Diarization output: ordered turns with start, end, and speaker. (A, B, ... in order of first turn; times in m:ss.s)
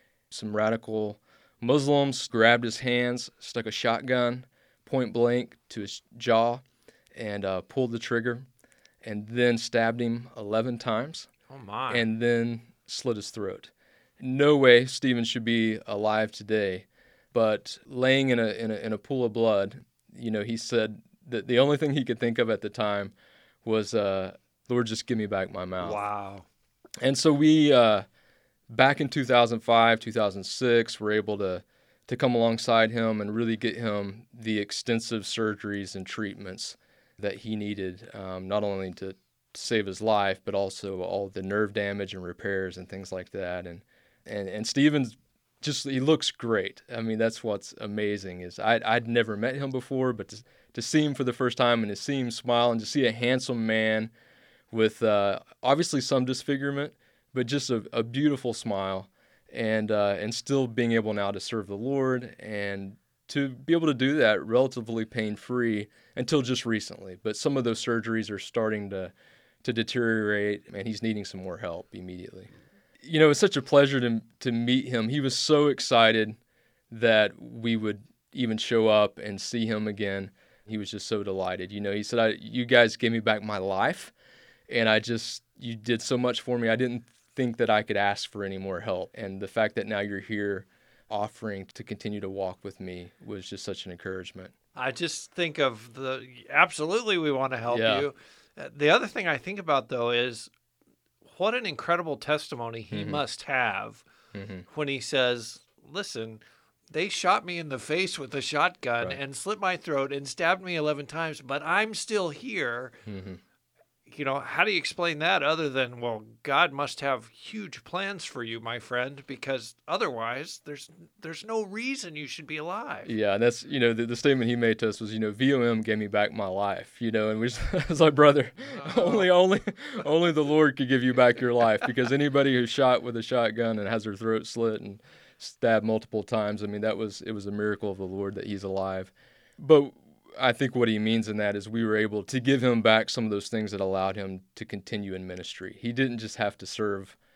0:00.3-0:06.6 A
0:07.2-0:08.4 A
0:09.0-0:11.3 A
0:11.5-0:12.0 B
0:11.9-0:26.1 A
0:25.8-0:26.4 B
0:27.0-0:28.1 A
0:28.7-0:54.1 A
0:54.7-1:09.1 A
1:09.6-1:12.5 A
1:13.0-1:16.4 A
1:16.9-1:24.1 A
1:24.7-1:34.5 A
1:34.8-1:40.5 B
1:37.7-1:38.1 A
1:41.3-1:44.0 B
1:42.9-1:43.2 A
1:44.3-1:44.7 A
1:44.7-1:53.0 B
1:53.1-1:53.4 A
1:54.1-2:03.1 B
2:03.0-2:27.2 A
2:08.8-2:09.3 B